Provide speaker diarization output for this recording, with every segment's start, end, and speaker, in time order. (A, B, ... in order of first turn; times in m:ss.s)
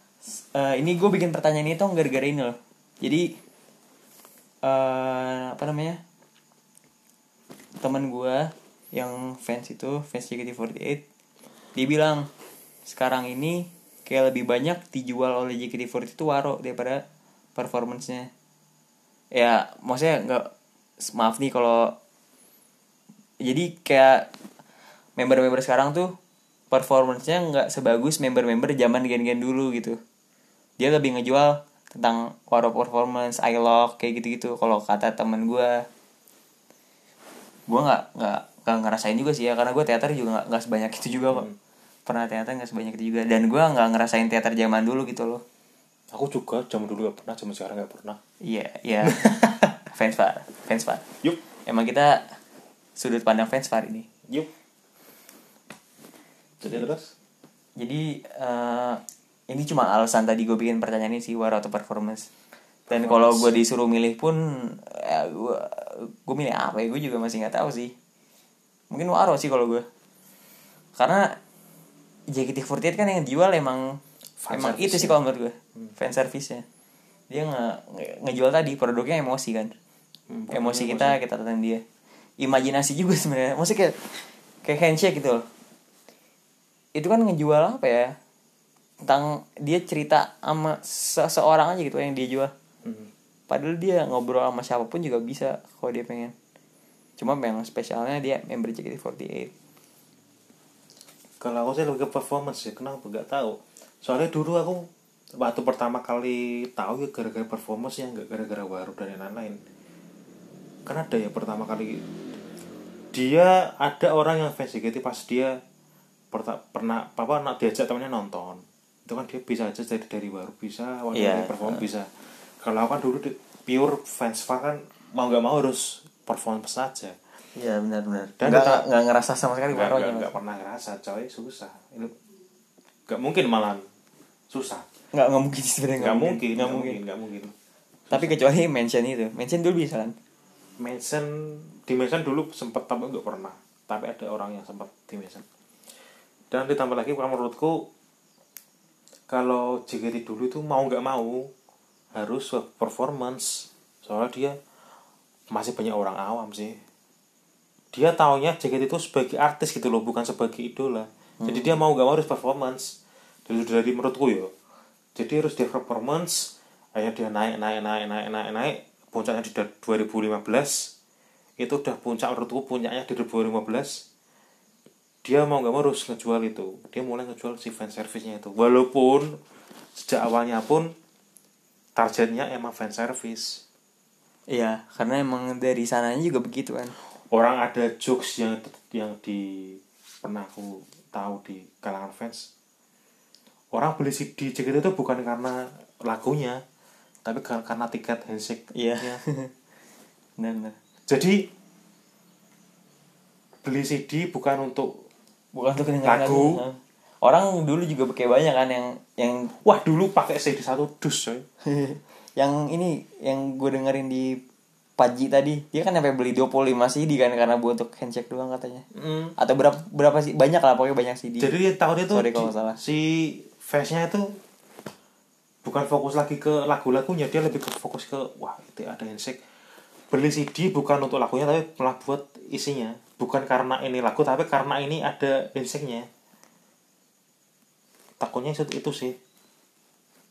0:00.3-0:03.3 A
0:04.6-0:06.0 A
0:07.8-0:11.0 A
0:11.7-0:12.3 A
0:12.9-0:17.0 A
0:17.6-0:18.3 A
0:19.3-0:20.5 A
0:21.0-0:21.9 A
0:23.4-0:24.3 A
0:25.2-0:26.1 A
0:26.7-0:30.0 A
0:30.8-0:35.8 A
0:37.7-0:41.5 A
0:41.3-0:41.5 B
0:42.0-0:45.4 A
0:46.1-0:48.2 B
0:48.4-0:51.0 A
0:49.0-0:49.7 B
0:51.6-0:52.4 A
0:53.0-0:54.1 A
0:56.6-0:57.1 B
0:57.8-1:02.3 A
1:02.9-1:03.6 B
1:02.9-1:07.9 A
1:08.9-1:09.8 A
1:11.0-1:11.4 A
1:12.3-1:14.0 A
1:14.4-1:15.2 B
1:14.5-1:16.6 A
1:17.3-1:19.7 A
1:20.3-1:21.2 B
1:20.5-1:21.8 A
1:22.4-1:25.4 A
1:26.9-1:28.1 A
1:29.0-1:32.5 A
1:32.8-1:33.1 B
1:33.5-1:36.3 A
1:37.2-1:39.5 A
1:41.4-1:44.9 B
1:45.4-1:49.6 B
1:50.8-1:52.1 B
1:53.1-1:55.5 B
1:56.3-2:07.2 B
2:01.1-2:01.8 A
2:07.6-2:10.3 A
2:08.4-2:08.8 B
2:09.7-2:12.1 B
2:13.1-2:13.8 B
2:14.5-2:14.8 B
2:15.1-2:17.0 A
2:16.0-2:17.5 B
2:18.1-2:18.4 B
2:18.1-2:20.1 A
2:20.8-2:25.4 B
2:26.5-2:27.9 B
2:29.3-2:31.5 B
2:32.2-2:34.6 B
2:35.5-2:36.8 B
2:37.9-2:44.5 B
2:41.4-2:41.7 A
2:45.2-2:50.9 B
2:51.6-2:54.0 B
2:55.2-2:59.4 B
2:59.9-3:00.9 B
3:02.0-3:03.6 B
3:04.5-3:06.9 A
3:07.1-3:12.5 B
3:13.7-3:16.6 B
3:17.2-3:19.2 B
3:18.7-3:19.5 A
3:20.4-3:20.7 A
3:21.1-3:21.5 B
3:23.6-3:25.0 B
3:25.5-3:29.5 A
3:26.0-3:26.6 B
3:29.5-3:31.4 B
3:31.6-3:34.4 A
3:35.0-3:38.8 A
3:38.9-3:39.3 B
3:39.4-3:41.5 A
3:41.4-3:44.4 B
3:42.1-3:42.8 A
3:45.6-3:49.4 B
3:50.1-3:56.1 B
3:58.2-3:59.2 B